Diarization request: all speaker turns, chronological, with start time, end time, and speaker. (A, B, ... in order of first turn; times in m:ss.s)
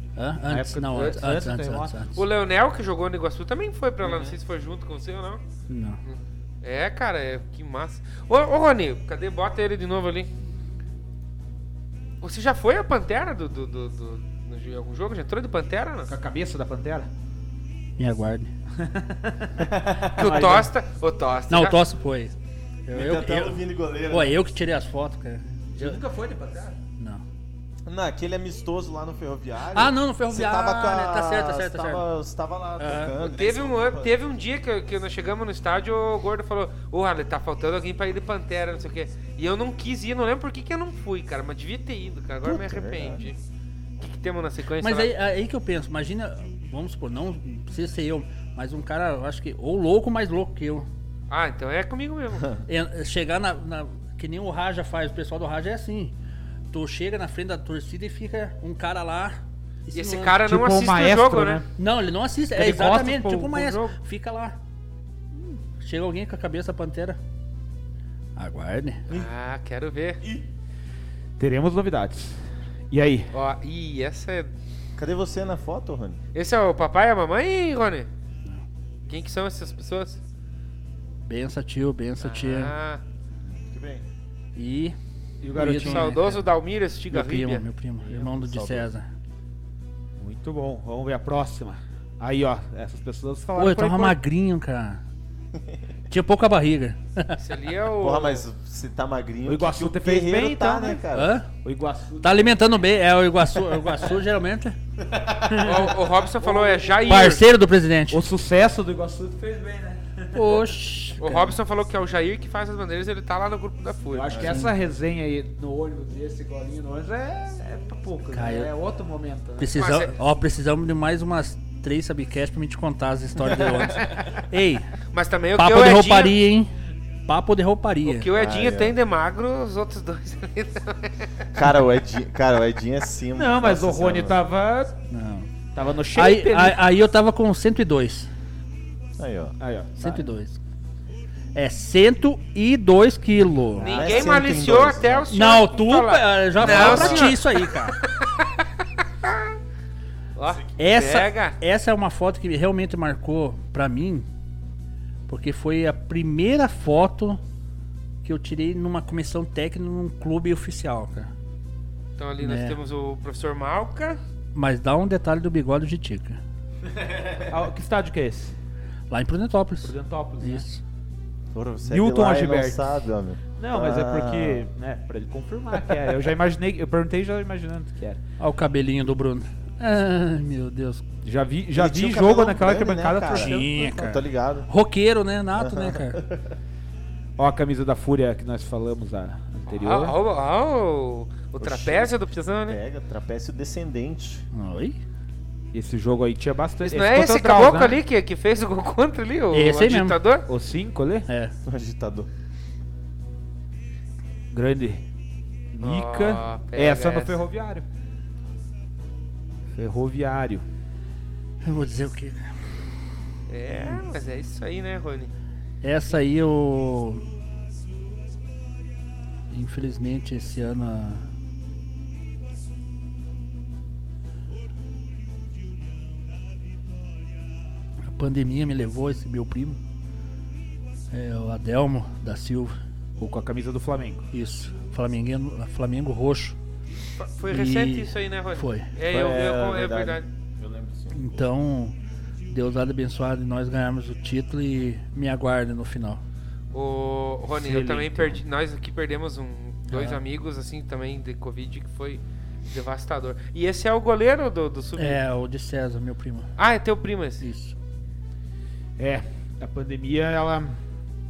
0:00.2-0:02.2 A
0:00.5-0:02.1 B
0:02.2-0:05.4 C
0:04.0-0:04.4 D
0:05.7-0:06.0 A
0:06.0-0:10.3 C
0:12.2-0:16.1 C
0:16.1-0:17.1 B
0:18.0-0:18.5 A
0:18.8-0:20.7 B
0:19.6-0:20.5 D
0:20.2-0:21.8 C
0:21.5-0:22.4 A
0:22.9-0:26.0 A
0:22.9-0:24.4 D
0:25.8-0:26.8 B
0:27.9-0:34.2 D
0:29.7-0:32.0 A
0:32.8-0:33.2 A
0:33.2-0:43.4 C
0:42.4-0:43.2 D
0:44.0-0:45.1 C
0:44.8-0:50.9 A
0:51.3-0:52.5 C
0:52.7-0:56.2 A
0:56.7-1:00.4 A
0:59.9-1:01.6 C
1:00.4-1:01.7 B
1:01.8-1:04.6 A
1:02.5-1:03.9 B
1:05.3-1:07.2 A
1:08.4-1:09.0 A
1:09.1-1:10.2 C
1:10.2-1:10.5 D
1:11.4-1:12.4 B
1:12.9-1:13.3 B
1:13.3-1:14.5 C
1:15.0-1:16.2 D
1:16.3-1:18.1 C
1:19.1-1:20.2 C
1:21.2-1:22.7 A
1:22.2-1:23.0 C
1:23.7-1:24.0 D
1:24.6-1:25.0 A
1:25.4-1:26.2 B
1:25.5-1:26.5 A
1:25.6-1:27.7 C
1:27.1-1:29.1 A
1:28.3-1:28.9 D
1:30.2-1:34.2 B
1:33.6-1:35.0 A
1:36.1-1:37.4 A
1:37.4-1:38.4 C
1:38.0-1:41.4 D
1:39.5-1:41.0 B
1:41.1-1:41.5 A
1:41.6-1:42.6 B
1:42.2-1:44.8 A
1:45.0-1:45.9 D
1:45.5-1:47.3 B
1:45.6-1:47.5 C
1:47.1-1:48.2 A
1:48.1-1:50.6 B
1:50.3-1:51.6 A
1:51.2-1:54.5 C
1:54.1-1:59.9 B
1:54.3-1:54.6 D
1:54.4-1:54.7 A
1:58.3-1:58.7 A
1:59.6-2:04.9 A
1:59.8-2:00.2 C
2:03.4-2:03.9 D
2:05.1-2:06.4 C
2:05.6-2:06.7 A
2:07.3-2:08.3 A
2:08.0-2:11.3 C
2:08.3-2:09.0 D
2:11.6-2:14.4 D
2:13.4-2:15.0 B
2:15.1-2:15.5 A
2:15.7-2:16.8 B
2:16.2-2:18.3 A
2:19.2-2:20.2 D
2:19.6-2:20.0 B
2:20.0-2:20.6 A
2:21.6-2:24.3 A
2:23.8-2:28.5 C
2:23.8-2:25.4 D
2:25.3-2:28.0 A
2:26.6-2:27.4 D
2:30.4-2:31.6 C
2:30.8-2:34.3 A
2:35.3-2:37.4 A
2:38.2-2:41.3 A
2:42.2-2:44.2 C
2:42.4-2:42.8 A
2:44.6-2:46.4 A
2:47.0-2:47.4 D
2:47.5-2:48.5 B
2:49.1-2:50.8 A
2:49.8-2:50.6 B
2:51.5-2:54.6 D
2:51.8-2:53.0 B
2:53.6-2:58.2 B
2:58.4-3:01.0 A
3:01.2-3:04.0 B
3:01.7-3:04.7 D
3:03.3-3:06.2 A
3:05.5-3:06.6 D
3:07.4-3:10.2 B
3:09.8-3:12.8 C
3:11.6-3:14.5 D
3:14.5-3:15.0 A
3:15.7-3:18.0 B
3:16.8-3:20.4 C
3:19.5-3:20.2 A
3:20.5-3:21.3 B
3:21.3-3:21.5 A
3:21.6-3:22.3 D
3:24.5-3:25.0 B
3:25.7-3:27.8 B
3:25.8-3:27.4 C
3:29.7-3:30.6 B
3:31.6-3:32.5 A
3:33.5-3:35.3 C
3:35.8-3:37.2 A
3:39.5-3:41.3 A
3:48.1-3:49.8 A
3:51.1-3:52.8 A
3:53.2-3:54.3 B
3:54.3-3:56.6 A
3:57.2-4:00.2 C
3:57.5-3:58.9 A
3:59.1-4:01.5 D
4:01.1-4:01.9 A
4:02.5-4:06.2 A
4:06.7-4:15.2 C
4:07.6-4:08.4 B
4:09.9-4:10.2 A
4:15.0-4:16.5 A
4:16.6-4:17.4 C
4:17.4-4:17.8 A
4:19.0-4:20.8 B